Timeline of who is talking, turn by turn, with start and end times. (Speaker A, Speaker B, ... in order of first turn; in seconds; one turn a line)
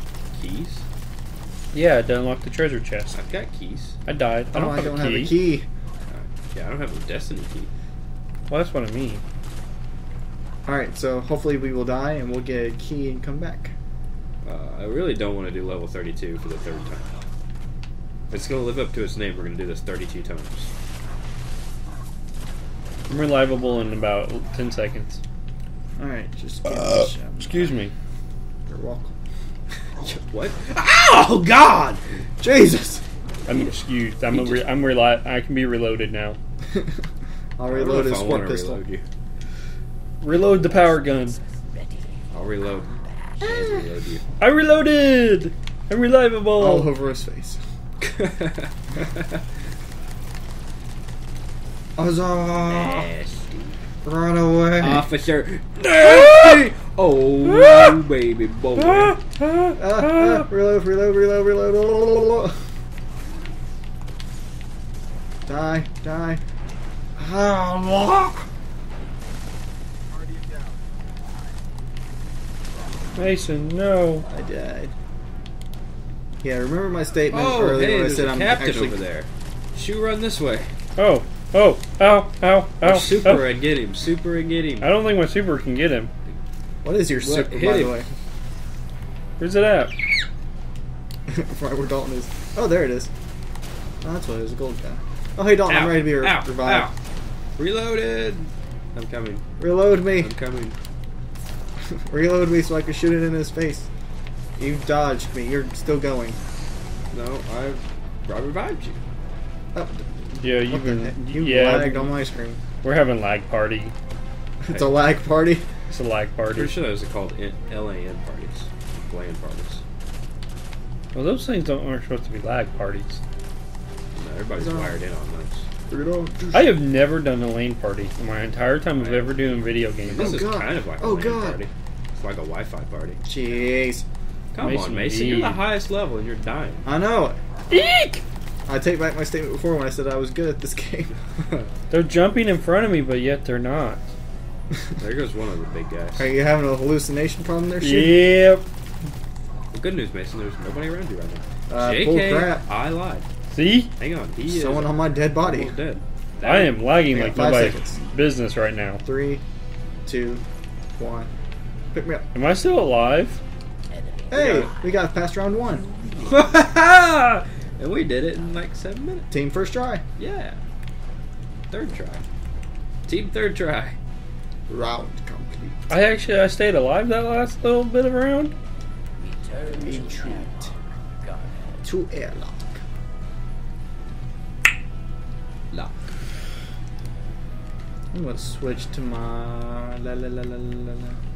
Speaker A: 0.3-0.8
Speaker B: 1.7-3.1
Speaker A: 3.1-4.0
Speaker B: 4.0-5.5
Speaker C: 4.5-5.7
Speaker A: 6.1-7.7
Speaker B: 8.5-9.2
Speaker C: 10.7-13.7
Speaker A: 14.4-17.1
Speaker A: 18.3-20.7
Speaker B: 23.1-25.2
Speaker C: 26.0-27.8
Speaker B: 26.7-27.9
Speaker C: 28.7-29.1
Speaker A: 30.0-32.0
Speaker C: 32.4-33.0
Speaker B: 33.5-36.4
Speaker A: 34.3-34.6
Speaker C: 37.6-38.8
Speaker A: 37.6-39.0
Speaker B: 40.2-41.4
Speaker A: 42.3-44.2
Speaker C: 43.4-43.7
Speaker B: 44.4-46.9
Speaker C: 46.6-47.6
Speaker A: 48.0-48.7
Speaker C: 52.0-53.1
Speaker A: 52.7-53.5
Speaker C: 54.0-55.1
Speaker A: 54.8-59.2
Speaker B: 57.5-58.0
Speaker B: 58.8-60.4
Speaker C: 59.8-62.6
Speaker C: 65.5-66.4
Speaker C: 67.2-68.5
Speaker B: 73.1-74.2
Speaker C: 74.3-74.9
Speaker C: 76.4-79.0
Speaker A: 77.3-80.7
Speaker B: 81.0-83.5
Speaker A: 82.8-84.9
Speaker B: 84.8-86.1
Speaker C: 86.8-88.1
Speaker A: 87.2-88.1
Speaker B: 89.4-90.1
Speaker C: 91.3-93.1
Speaker C: 94.0-96.9
Speaker A: 95.7-96.9
Speaker A: 97.6-99.4
Speaker C: 99.6-100.3
Speaker A: 100.1-100.8
Speaker C: 101.9-103.9
Speaker C: 104.6-106.4
Speaker A: 107.1-109.0
Speaker C: 109.7-112.6
Speaker B: 110.4-112.2
Speaker B: 112.8-113.9
Speaker C: 114.6-115.7
Speaker A: 114.7-115.0
Speaker B: 115.9-116.7
Speaker A: 116.5-119.8
Speaker B: 121.1-123.2
Speaker A: 124.1-125.7
Speaker C: 124.5-125.0
Speaker C: 125.9-126.8
Speaker B: 126.5-130.4
Speaker A: 128.9-129.4
Speaker A: 130.0-133.2
Speaker C: 130.2-131.6
Speaker C: 133.2-134.0
Speaker A: 134.5-136.8
Speaker B: 134.6-135.6
Speaker C: 136.8-137.4
Speaker B: 137.7-138.2
Speaker C: 138.7-141.7
Speaker B: 141.9-144.0
Speaker A: 145.0-146.3
Speaker C: 146.2-148.2
Speaker B: 147.8-148.6
Speaker A: 149.7-153.2
Speaker C: 151.7-152.7
Speaker B: 153.5-153.9
Speaker A: 154.0-156.9
Speaker C: 154.4-155.8
Speaker B: 156.4-159.0
Speaker C: 157.1-158.0
Speaker C: 159.0-159.4
Speaker C: 160.0-160.4
Speaker C: 161.0-161.3
Speaker C: 161.9-162.2
Speaker B: 162.3-163.4
Speaker A: 164.3-164.7
Speaker C: 164.3-165.9
Speaker A: 166.2-169.3
Speaker C: 169.3-170.0
Speaker A: 170.2-170.6
Speaker A: 171.7-172.2
Speaker A: 173.1-174.0
Speaker C: 174.7-176.0
Speaker B: 175.9-178.5
Speaker C: 179.7-180.7
Speaker C: 181.8-182.8
Speaker A: 185.7-186.1
Speaker C: 188.1-191.2